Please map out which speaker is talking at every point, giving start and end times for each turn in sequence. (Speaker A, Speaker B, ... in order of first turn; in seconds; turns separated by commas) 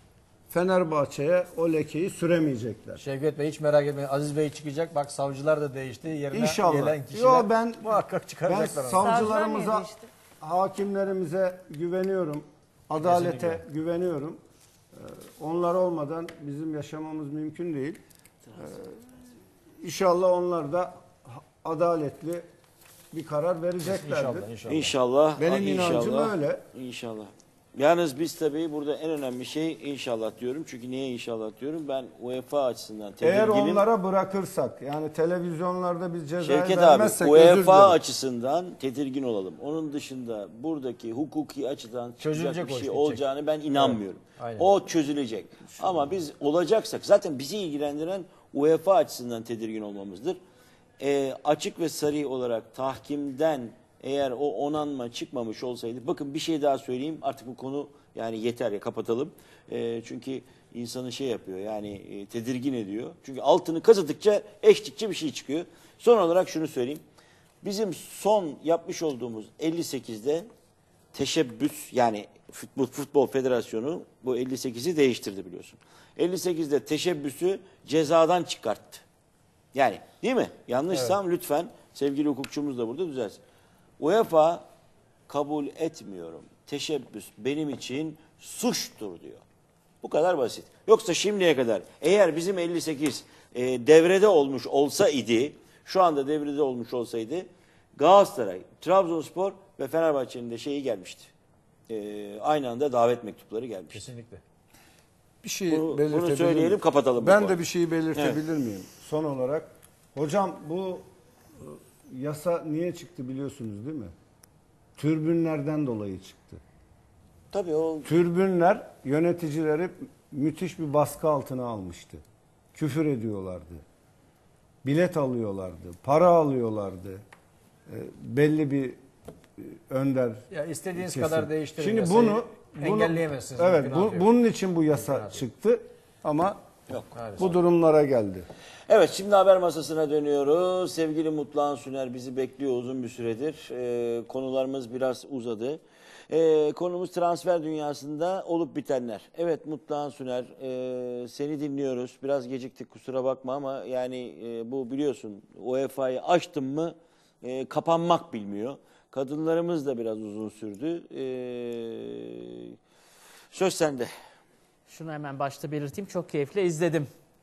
Speaker A: 0.5-3.0, Speaker B: 3.0-9.4, Speaker A: 6.3-14.4, Speaker B: 13.0-13.6, Speaker A: 15.0-18.0, Speaker A: 18.6-19.0, Speaker A: 19.8-22.5, Speaker A: 23.1-24.5, Speaker B: 23.8-24.9, Speaker C: 24.6-33.9, Speaker A: 25.4-26.6, Speaker A: 33.2-38.0, Speaker C: 36.4-50.4, Speaker B: 42.2-44.7, Speaker C: 51.0-67.0, Speaker C: 67.6-70.5, Speaker C: 71.1-79.0, Speaker C: 79.7-83.4, Speaker C: 84.0-84.7, Speaker C: 85.3-89.4, Speaker C: 90.0-101.3, Speaker C: 101.9-104.0, Speaker B: 103.9-104.4, Speaker A: 105.4-111.1, Speaker C: 105.7-107.6, Speaker A: 111.6-114.1, Speaker A: 115.0-116.6, Speaker C: 117.5-118.1, Speaker A: 118.0-122.2, Speaker A: 122.8-123.8, Speaker A: 124.8-127.2, Speaker A: 127.9-129.0, Speaker A: 129.6-130.4, Speaker B: 130.5-134.3, Speaker A: 131.0-136.6, Speaker B: 134.9-135.4, Speaker C: 136.9-137.5, Speaker B: 137.1-137.5, Speaker A: 137.4-138.5, Speaker C: 138.9-162.7, Speaker C: 163.5-164.1, Speaker D: 164.9-167.1